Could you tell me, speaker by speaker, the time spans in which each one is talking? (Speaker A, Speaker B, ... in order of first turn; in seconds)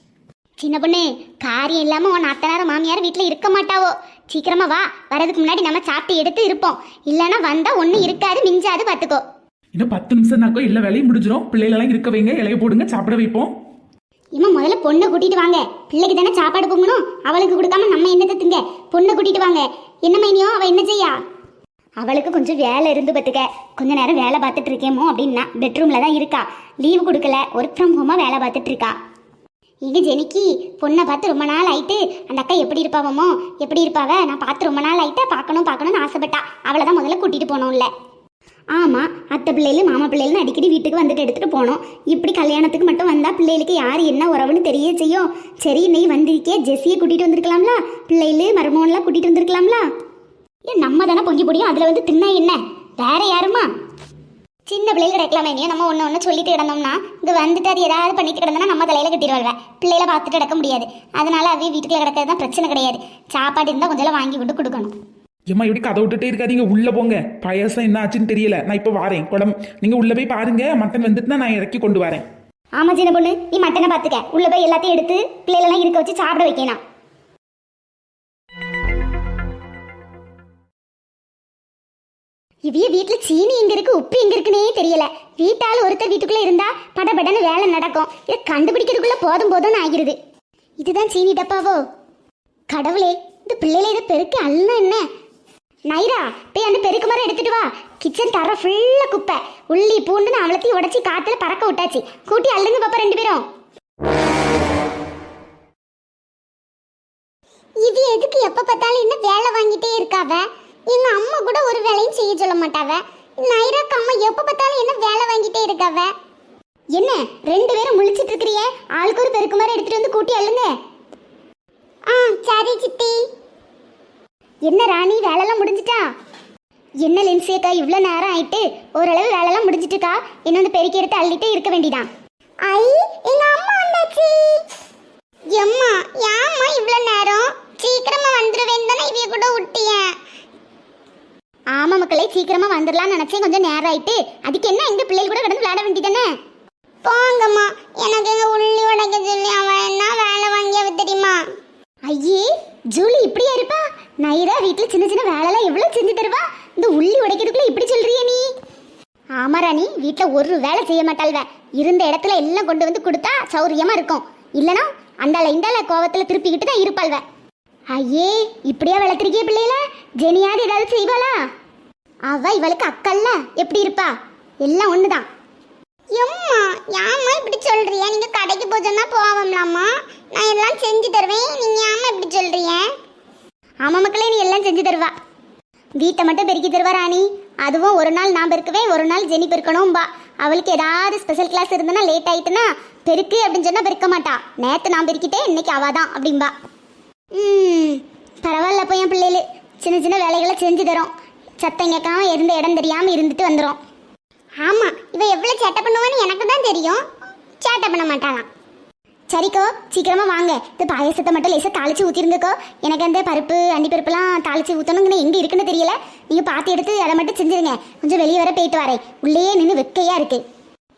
Speaker A: 0.6-9.2, 14.3-21.2, 22.0-28.9, 29.8-37.9, 38.7-49.9, 50.7-53.7, 54.7-64.9, 72.8-76.8, 82.7-90.2, 90.8-91.8, 92.7-95.0, 95.9-103.4, 117.0-120.7, 124.7-126.0, 127.0-132.1, 141.7-146.3, 152.1-158.4, 159.4-167.2, 167.9-171.3, 172.3-175.2, 183.8-185.1, 186.0-196.5, 197.3-203.8, 209.3-220.4
Speaker B: 9.7-13.5, 65.5-72.2
Speaker C: 107.8-116.1, 122.1-123.2, 132.6-134.6, 135.5-140.1, 147.0-151.4, 176.1-182.9, 204.6-207.0, 207.6-208.5